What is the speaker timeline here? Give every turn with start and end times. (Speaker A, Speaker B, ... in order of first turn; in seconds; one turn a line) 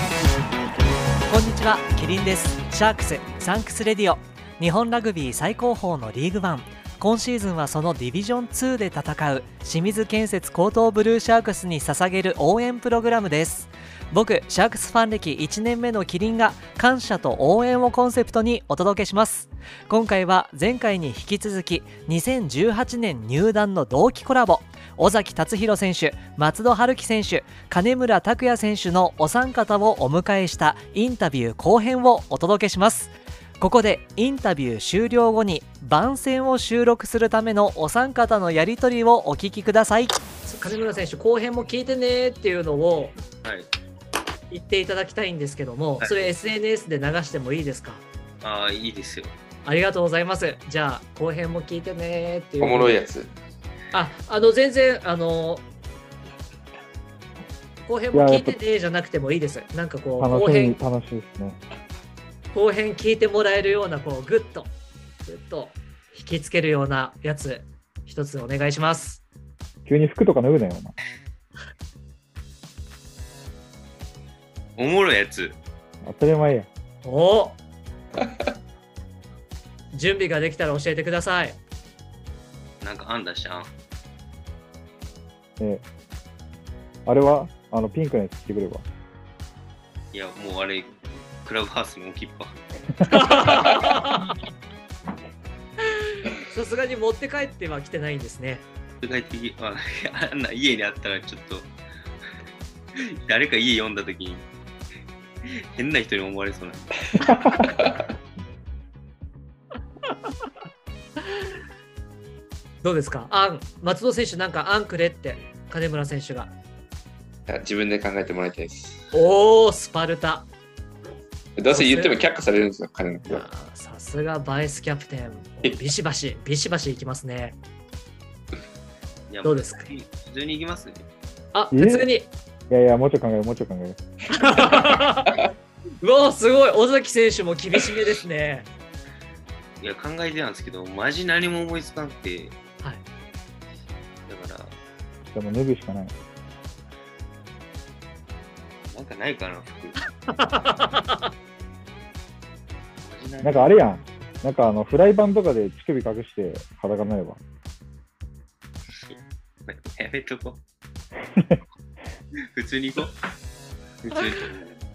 Speaker A: 1.3-43.1
Speaker B: 43.4-43.7
Speaker A: 44.5-48.0
Speaker B: 46.0-46.3
Speaker B: 48.4-49.3
Speaker A: 49.6-53.0
Speaker C: 52.6-53.3
Speaker A: 53.9-55.6
Speaker A: 57.8-60.8
Speaker D: 58.1-58.6
Speaker D: 60.2-61.6
Speaker A: 62.5-64.7
Speaker A: 65.2-69.2
Speaker D: 69.8-70.9
Speaker B: 74.8-75.6
Speaker D: 76.0-76.7
Speaker A: 77.0-77.6
Speaker A: 79.9-81.6
Speaker B: 82.8-83.7
Speaker D: 85.6-85.8
Speaker D: 87.0-88.8
Speaker B: 90.1-92.6
Speaker A: 93.0-94.4
Speaker B: 93.3-93.8
Speaker A: 96.2-98.7
Speaker B: 99.0-101.7
Speaker B: 103.0-104.5
Speaker B: 105.5-107.3
Speaker A: 112.8-116.5
Speaker C: 117.5-119.0
Speaker A: 119.1-120.5
Speaker C: 121.6-123.5
Speaker A: 121.7-122.2
Speaker A: 123.3-127.6
Speaker B: 129.3-131.1
Speaker A: 129.4-129.8
Speaker A: 131.5-132.3
Speaker D: 131.7-132.1
Speaker D: 132.7-134.0
Speaker A: 134.3-135.3
Speaker A: 136.0-138.7
Speaker B: 139.8-142.6
Speaker B: 144.3-144.7
Speaker D: 145.3-146.1
Speaker B: 148.9-150.0
Speaker A: 150.3-151.2
Speaker B: 153.0-153.8
Speaker D: 153.4-157.4
Speaker B: 159.0-160.6
Speaker B: 162.5-163.2
Speaker B: 164.0-164.8